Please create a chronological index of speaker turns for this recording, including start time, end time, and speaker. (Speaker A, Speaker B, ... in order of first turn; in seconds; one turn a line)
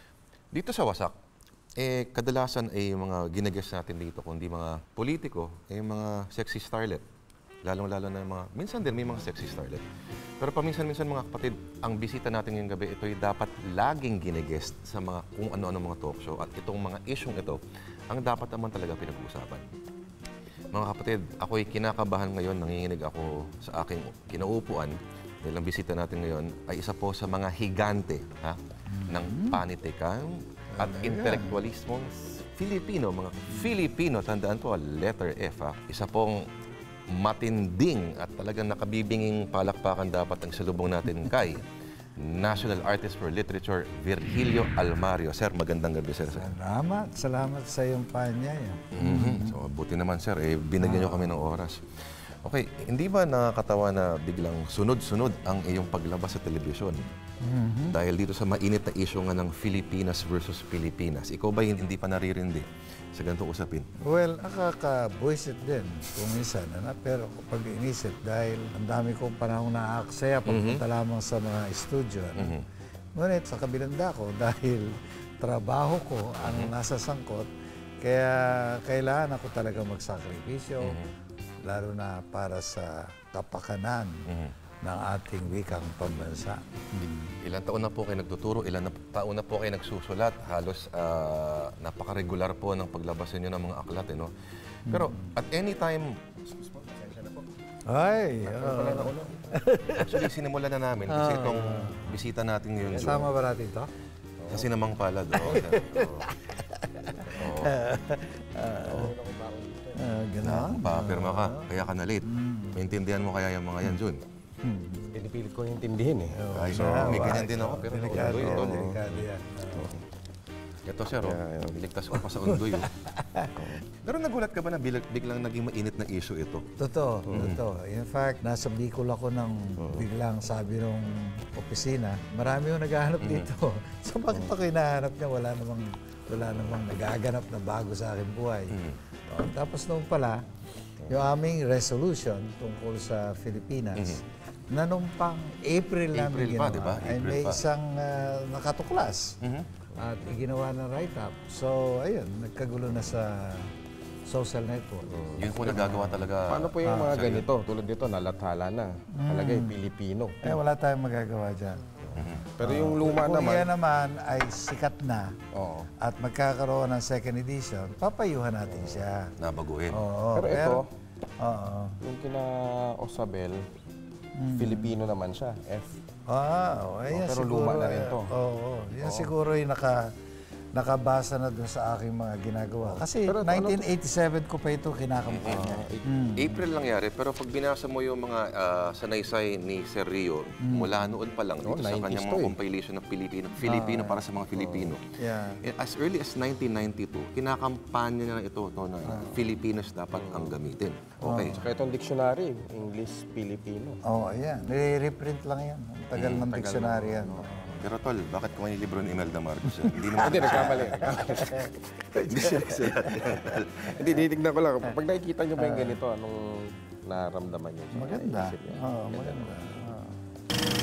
Speaker A: 0.5-1.1
Speaker A: 1.8-7.0
Speaker A: 7.6-9.8
Speaker A: 10.4-19.7
Speaker A: 20.7-36.5
Speaker B: 28.9-29.6
Speaker B: 30.7-31.5
Speaker A: 37.1-46.5
Speaker B: 46.3-49.6
Speaker A: 48.9-51.9
Speaker B: 50.8-51.3
Speaker A: 52.4-57.1
Speaker B: 57.4-58.0
Speaker A: 57.9-63.9
Speaker B: 64.0-72.6
Speaker A: 70.5-70.8
Speaker A: 72.3-72.6
Speaker B: 73.2-77.5
Speaker A: 76.4-76.7
Speaker B: 78.0-81.0
Speaker A: 80.8-81.1
Speaker B: 81.6-84.2
Speaker A: 84.3-84.5
Speaker B: 84.8-87.3
Speaker A: 87.4-94.3
Speaker B: 94.9-95.3
Speaker A: 94.9-96.2
Speaker C: 96.6-97.5
Speaker B: 97.9-100.3
Speaker C: 98.5-99.5
Speaker A: 100.0-103.3
Speaker B: 101.1-102.2
Speaker B: 102.9-103.9
Speaker C: 104.4-104.7
Speaker A: 104.5-106.3
Speaker B: 105.3-109.2
Speaker C: 107.1-107.6
Speaker A: 107.4-107.7
Speaker C: 108.8-110.2
Speaker B: 109.9-111.7
Speaker A: 110.4-114.2
Speaker B: 112.2-112.8
Speaker B: 114.6-115.0
Speaker C: 115.0-117.4
Speaker B: 116.3-120.0
Speaker A: 116.5-119.0
Speaker C: 118.1-119.0
Speaker C: 119.8-120.0
Speaker A: 120.8-122.9
Speaker C: 121.2-121.8
Speaker B: 122.4-123.5
Speaker C: 123.5-123.8
Speaker A: 124.0-126.7
Speaker B: 126.8-140.4
Speaker C: 127.3-127.5
Speaker A: 127.3-127.6
Speaker C: 129.8-130.1
Speaker A: 133.2-133.5
Speaker A: 138.7-139.0
Speaker B: 141.1-149.4
Speaker A: 146.1-147.6
Speaker A: 149.4-149.7
Speaker B: 149.9-153.7
Speaker B: 154.3-156.2
Speaker C: 155.1-155.9
Speaker A: 155.4-157.5
Speaker C: 156.5-160.6
Speaker B: 156.8-157.2
Speaker B: 159.1-159.7
Speaker B: 160.4-161.8
Speaker C: 162.0-163.7
Speaker A: 162.1-162.4
Speaker B: 162.6-165.3
Speaker C: 165.5-165.9
Speaker B: 166.0-169.3
Speaker A: 169.4-170.1
Speaker B: 169.9-170.8
Speaker C: 170.3-170.8
Speaker B: 171.4-172.0
Speaker C: 172.0-173.6
Speaker B: 174.4-174.9
Speaker C: 174.6-176.0
Speaker B: 176.3-180.1
Speaker C: 177.1-178.3
Speaker C: 179.0-179.3
Speaker B: 180.7-186.6
Speaker C: 182.9-183.9
Speaker A: 185.3-185.7
Speaker C: 185.4-186.1
Speaker A: 186.3-201.6
Speaker B: 190.6-191.0
Speaker C: 191.6-192.6
Speaker B: 193.6-194.2
Speaker C: 194.6-194.9
Speaker B: 195.2-195.6
Speaker B: 199.1-199.3
Speaker C: 200.2-200.5
Speaker B: 201.2-201.7
Speaker C: 201.3-204.0
Speaker B: 204.0-207.8
Speaker A: 206.1-206.4
Speaker C: 206.2-207.7
Speaker A: 207.8-211.2
Speaker B: 209.7-213.9
Speaker C: 210.2-211.7
Speaker A: 212.2-214.1
Speaker C: 213.8-219.9
Speaker B: 215.6-216.0
Speaker B: 217.9-220.2